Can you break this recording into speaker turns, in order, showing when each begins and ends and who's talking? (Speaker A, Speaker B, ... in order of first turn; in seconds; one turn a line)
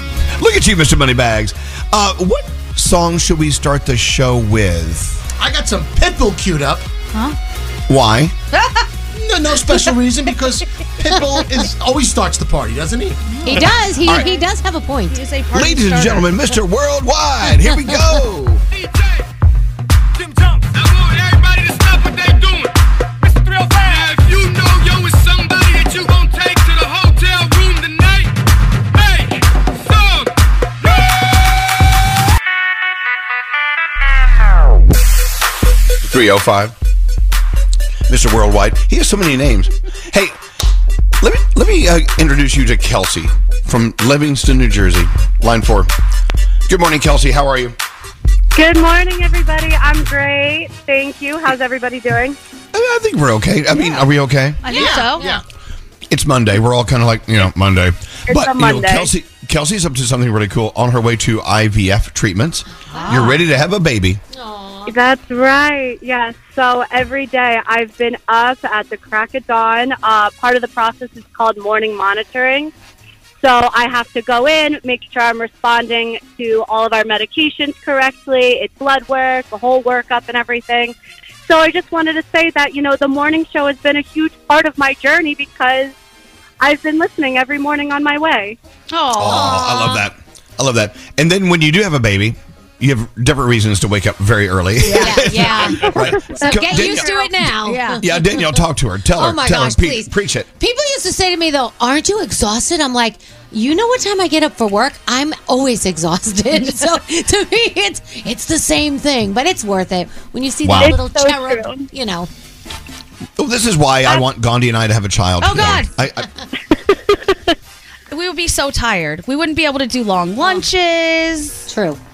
Speaker A: 0.4-5.2
Speaker B: 5.4-6.8
Speaker A: 7.9-8.3
Speaker B: 9.1-13.2
Speaker C: 13.3-14.4
Speaker D: 13.4-15.2
Speaker A: 14.0-14.3
Speaker C: 15.1-16.5
Speaker A: 15.5-18.6
Speaker A: 36.0-36.7
Speaker A: 38.1-40.4
Speaker A: 41.2-45.9
Speaker A: 46.7-47.8
Speaker E: 48.5-52.4
Speaker A: 52.7-54.6
Speaker C: 54.6-55.4
Speaker B: 54.6-55.4
Speaker A: 56.1-64.2
Speaker E: 58.3-59.1
Speaker D: 62.9-63.2
Speaker C: 62.9-63.4
Speaker D: 64.3-64.9
Speaker E: 64.8-72.7
Speaker E: 73.4-80.9
Speaker E: 81.5-85.9
Speaker E: 86.6-88.6
Speaker C: 88.9-90.0
Speaker A: 89.1-97.1
Speaker C: 94.8-95.4
Speaker D: 95.0-98.6
Speaker C: 96.5-98.0
Speaker A: 98.0-100.5
Speaker D: 99.2-112.3
Speaker A: 110.6-111.0
Speaker E: 110.8-111.8
Speaker A: 113.4-116.3
Speaker C: 115.4-115.9
Speaker C: 118.1-121.7
Speaker D: 121.7-122.0